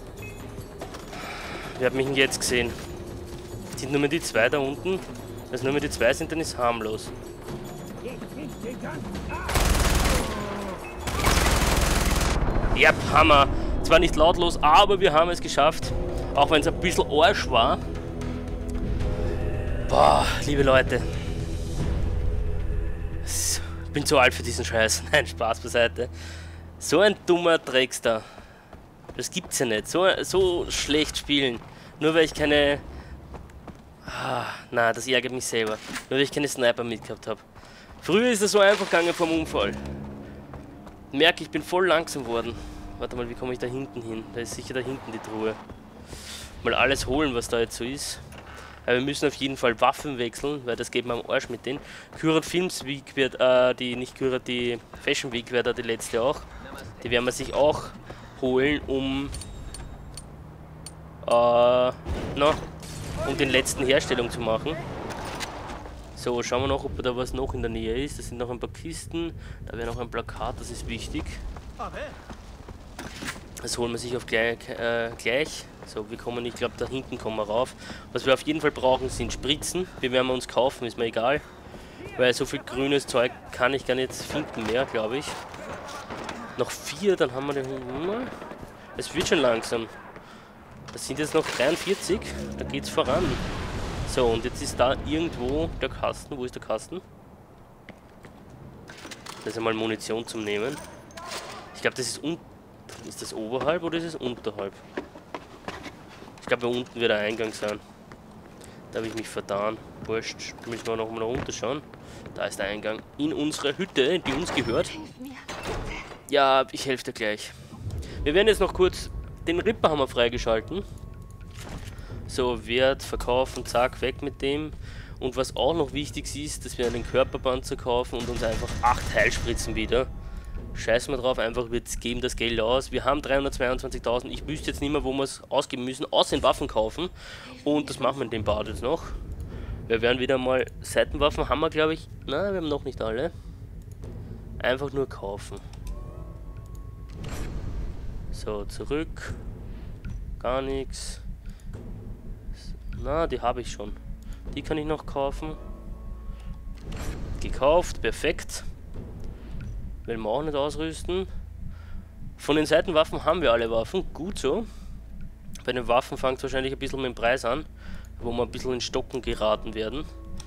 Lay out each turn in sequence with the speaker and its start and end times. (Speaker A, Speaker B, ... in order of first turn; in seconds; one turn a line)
Speaker A: 1.6-2.8
Speaker A: 3.8-7.1
Speaker A: 12.7-17.8
Speaker A: 19.9-21.1
Speaker A: 23.2-26.1
Speaker A: 26.8-28.3
Speaker A: 29.1-32.8
Speaker A: 34.0-37.4
Speaker A: 38.0-39.8
Speaker A: 41.1-45.6
Speaker A: 46.6-48.2
Speaker A: 48.9-56.5
Speaker A: 57.0-59.3
Speaker A: 61.2-62.6
Speaker A: 63.2-64.8
Speaker A: 66.1-71.4
Speaker A: 73.6-81.4
Speaker A: 82.1-85.4
Speaker A: 86.6-88.3
Speaker A: 89.0-89.9
Speaker A: 90.9-93.4
Speaker A: 94.1-97.0
Speaker A: 99.4-100.8
Speaker A: 101.7-104.8
Speaker A: 106.4-107.8
Speaker A: 108.9-115.2
Speaker A: 116.3-117.5
Speaker A: 118.2-120.8
Speaker A: 122.3-130.1
Speaker A: 130.7-139.2
Speaker A: 139.9-143.3
Speaker A: 144.6-145.6
Speaker A: 148.3-149.4
Speaker A: 150.4-151.2
Speaker A: 152.9-154.0
Speaker A: 154.5-155.6
Speaker A: 157.4-158.7
Speaker A: 160.0-161.3
Speaker A: 162.4-164.7
Speaker A: 165.6-170.1